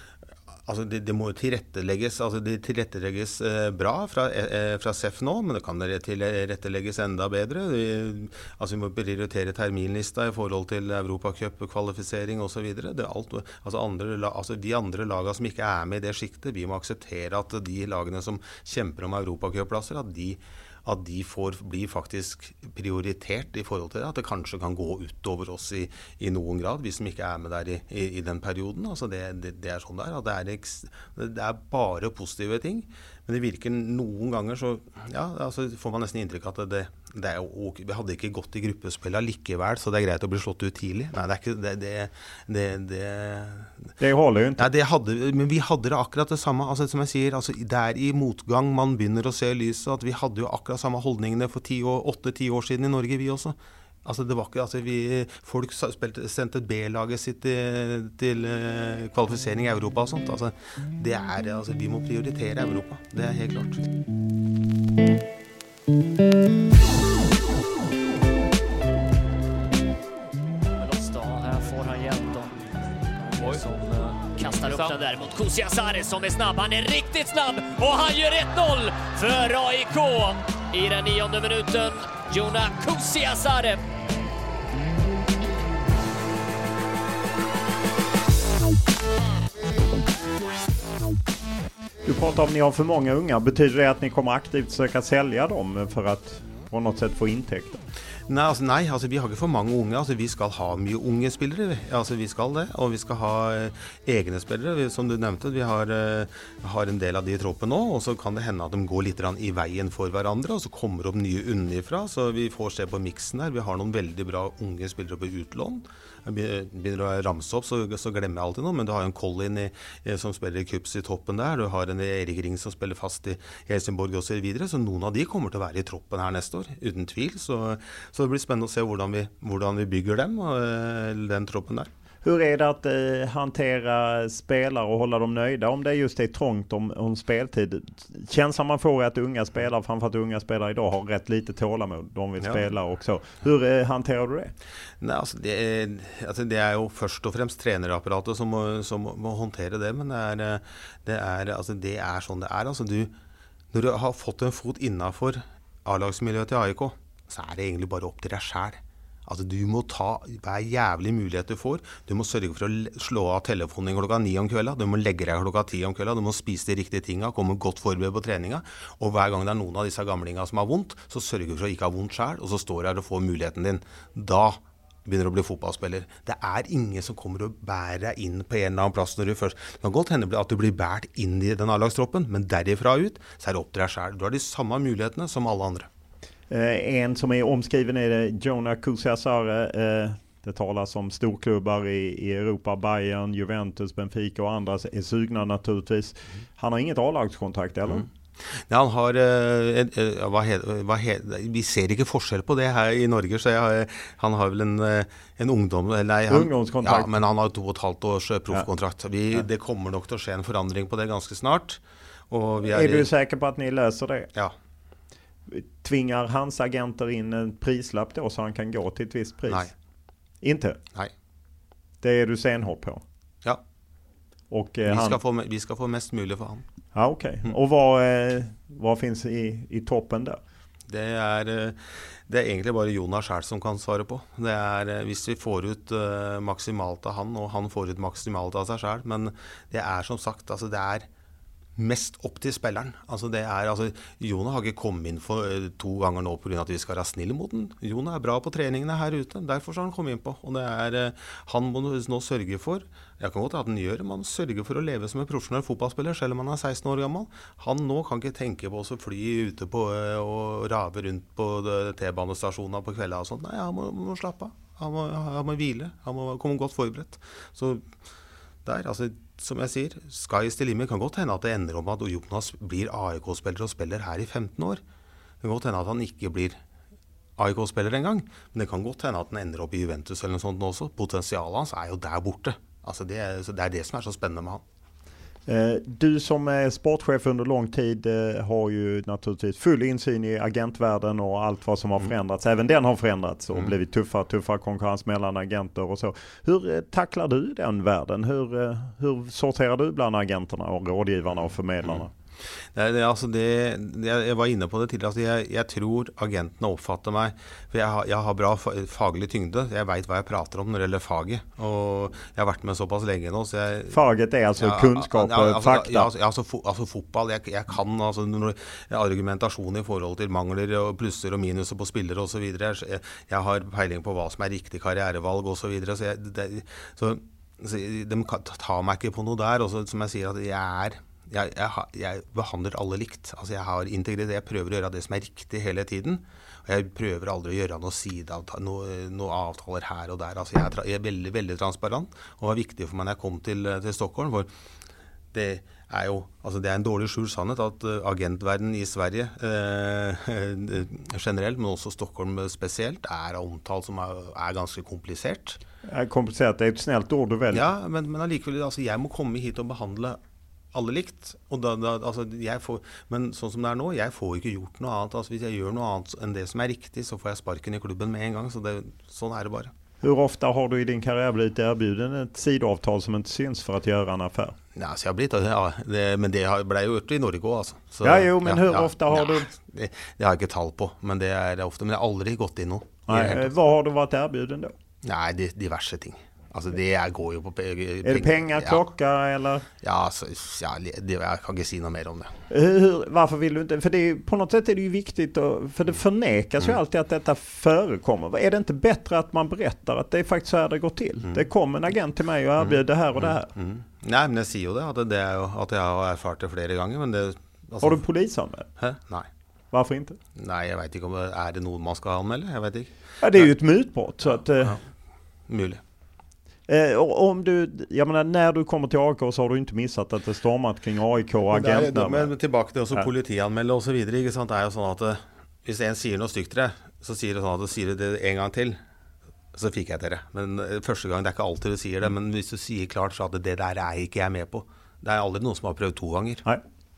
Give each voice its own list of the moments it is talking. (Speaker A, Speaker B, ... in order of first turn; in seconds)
Speaker A: 0.7-43.9, 44.6-63.8, 98.3-131.9, 145.0-153.1, 153.7-185.9, 197.9-213.1, 224.8-226.7, 230.9-241.1, 241.8-267.8, 268.6-274.8, 275.4-276.6, 277.4-284.6, 302.6-314.0, 314.6-344.5, 345.3-355.6, 357.5-360.2, 360.7-369.7, 374.7-383.5, 385.0-388.9, 389.8-392.3, 402.6-408.0, 408.8-409.3, 410.3-413.5, 414.2-414.8, 415.5-415.8, 421.5-428.8, 429.5-436.4
Speaker B: 44.0-44.7, 92.0-97.8, 132.2-144.5, 186.5-198.1, 206.3-207.1, 212.6-214.3, 215.5-219.7, 220.4-220.8, 222.0-223.0, 224.5-225.2, 226.9-230.4, 285.5-302.1, 313.9-316.1, 355.9-357.6, 370.0-374.5, 378.0-379.5, 383.1-384.7, 388.0-389.7, 392.5-403.5, 407.8-408.7, 409.7-410.2, 413.2-414.8, 416.7-422.3
Speaker C: 70.7-72.6, 73.3-83.8